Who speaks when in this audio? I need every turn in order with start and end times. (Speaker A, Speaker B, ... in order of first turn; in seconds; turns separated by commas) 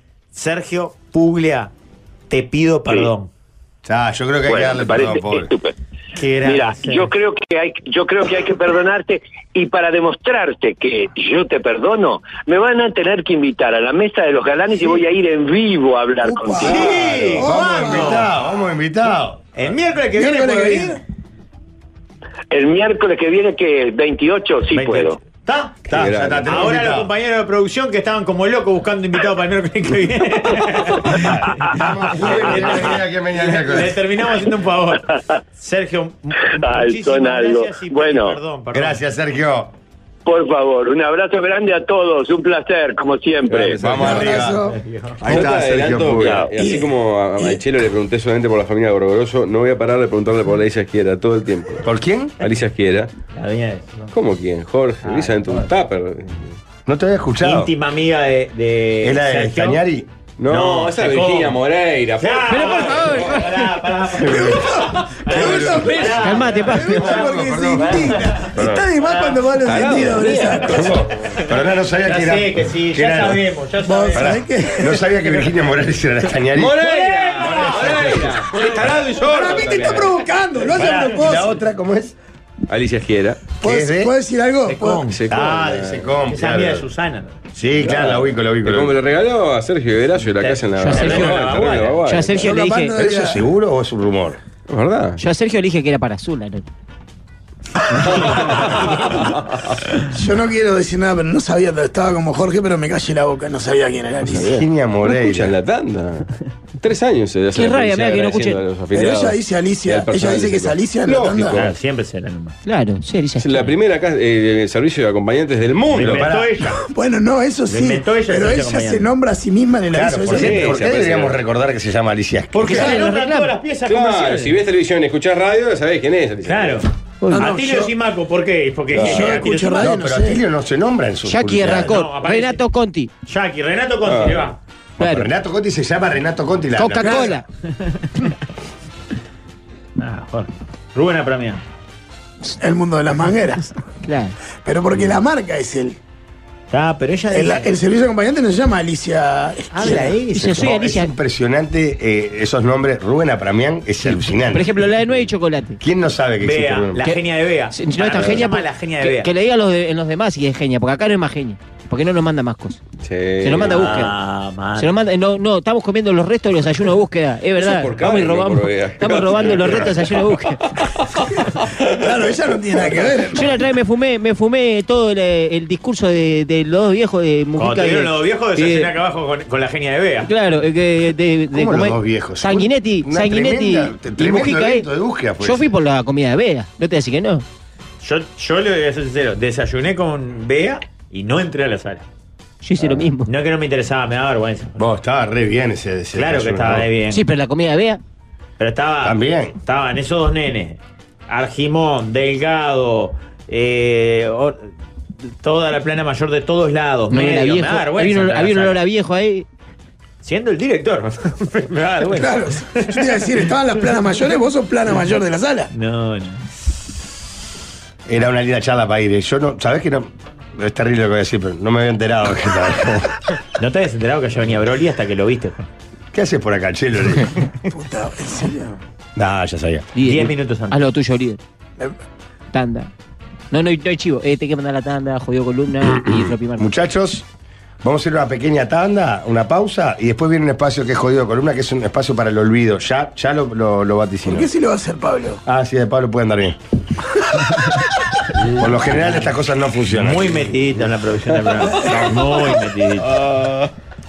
Speaker A: 0.3-1.7, Speaker A: 2.3-3.3, Speaker B: 3.9-5.5, Speaker C: 4.5-5.8, Speaker A: 6.2-7.1, Speaker C: 6.4-16.7, Speaker D: 16.3-18.3, Speaker A: 16.6-18.3, Speaker B: 16.7-19.4, Speaker A: 19.6-21.0, Speaker D: 20.1-21.0, Speaker C: 22.5-25.2, Speaker A: 24.7-25.8, Speaker B: 25.9-27.1, Speaker E: 25.9-26.7, Speaker A: 26.5-31.4, Speaker B: 31.1-34.0, Speaker A: 32.1-39.0, Speaker C: 36.5-38.4, Speaker B: 38.7-39.7, Speaker C: 40.3-43.8, Speaker E: 43.5-44.5, Speaker B: 43.8-46.5, Speaker D: 44.0-44.8, Speaker A: 44.7-45.3, Speaker E: 45.2-51.9, Speaker D: 46.5-47.6, Speaker B: 51.8-52.4, Speaker E: 52.4-53.1, Speaker A: 53.3-54.1, Speaker E: 54.1-56.6, Speaker A: 55.0-55.7, Speaker B: 56.9-57.7, Speaker A: 57.4-59.8, Speaker B: 59.0-60.1, Speaker E: 60.4-63.2, Speaker A: 60.5-61.6, Speaker A: 62.2-69.5, Speaker F: 62.5-63.6, Speaker B: 64.2-64.6, Speaker D: 64.3-70.9, Speaker E: 65.3-66.2, Speaker B: 65.4-65.9, Speaker F: 66.0-67.1, Speaker B: 66.7-68.8, Speaker E: 69.6-71.1, Speaker B: 70.7-73.5, Speaker A: 72.0-74.8, Speaker D: 73.8-75.1, Speaker B: 74.1-76.8, Speaker E: 76.5-80.2, Speaker A: 76.8-78.8, Speaker B: 77.4-78.2, Speaker D: 79.2-81.6, Speaker B: 80.7-82.2, Speaker A: 80.8-81.1, Speaker E: 82.7-83.6, Speaker D: 83.6-85.1, Speaker B: 83.6-84.1, Speaker A: 84.7-85.3, Speaker E: 85.1-86.1, Speaker B: 85.3-86.9, Speaker A: 86.2-87.4, Speaker B: 87.5-89.0, Speaker E: 87.8-92.5, Speaker A: 90.4-92.1, Speaker F: 90.8-91.5, Speaker F: 92.1-93.0, Speaker D: 92.3-93.4, Speaker B: 92.9-94.4, Speaker E: 94.7-95.2, Speaker F: 95.2-96.7, Speaker E: 98.1-99.6, Speaker D: 100.1-104.5, Speaker B: 104.3-105.6, Speaker E: 104.3-111.7, Speaker F: 107.5-108.6, Speaker D: 108.9-111.6, Speaker A: 111.5-112.6, Speaker F: 112.7-113.7, Speaker E: 113.4-116.3, Speaker A: 115.9-116.8, Speaker B: 116.0-116.8, Speaker D: 116.8-120.7, Speaker A: 117.7-119.1, Speaker B: 119.9-122.9, Speaker E: 120.3-121.4, Speaker A: 122.5-124.6, Speaker F: 122.7-123.5, Speaker E: 123.8-126.8, Speaker A: 126.5-129.9, Speaker F: 127.2-127.5, Speaker D: 127.3-127.9, Speaker E: 128.9-129.3, Speaker D: 128.9-130.4, Speaker B: 129.8-131.9, Speaker F: 131.3-133.1, Speaker A: 131.7-132.6, Speaker A: 133.3-134.6, Speaker E: 134.0-134.4, Speaker F: 135.0-135.3, Speaker B: 135.0-137.3, Speaker F: 136.8-137.4, Speaker D: 137.0-137.3, Speaker A: 140.0-141.6, Speaker D: 142.6-143.8, Speaker F: 144.0-144.3, Speaker D: 144.6-146.0, Speaker A: 146.7-147.7, Speaker D: 147.3-150.2, Speaker A: 149.7-150.8, Speaker F: 150.3-151.1, Speaker B: 150.5-154.8, Speaker F: 154.1-155.8, Speaker B: 155.8-157.1, Speaker A: 156.4-159.3, Speaker F: 157.7-162.8, Speaker E: 163.0-163.9, Speaker F: 163.4-164.2, Speaker A: 163.7-164.9, Speaker F: 164.8-170.6, Speaker E: 167.6-172.1, Speaker D: 171.9-173.6, Speaker F: 173.3-178.9, Speaker A: 177.6-180.3, Speaker F: 180.2-184.9, Speaker B: 181.5-185.7, Speaker F: 185.4-187.4, Speaker A: 188.0-192.1, Speaker F: 192.6-193.3, Speaker A: 193.2-194.8, Speaker B: 194.8-196.9, Speaker A: 196.1-197.2, Speaker F: 197.1-198.0, Speaker A: 198.6-204.7, Speaker B: 199.0-199.6, Speaker A: 205.3-208.8, Speaker F: 207.1-209.5, Speaker A: 210.2-213.5, Speaker D: 212.1-215.7, Speaker A: 215.7-216.5, Speaker B: 218.1-223.2, Speaker A: 223.6-225.7, Speaker B: 226.1-227.3, Speaker D: 227.7-228.8, Speaker B: 229.2-229.9, Speaker F: 230.0-231.4, Speaker A: 230.0-230.8, Speaker F: 232.5-232.9, Speaker F: 233.5-236.7, Speaker B: 235.9-237.3, Speaker B: 237.8-244.5, Speaker D: 244.2-245.4, Speaker B: 245.4-246.6, Speaker B: 248.4-250.4, Speaker A: 249.9-253.1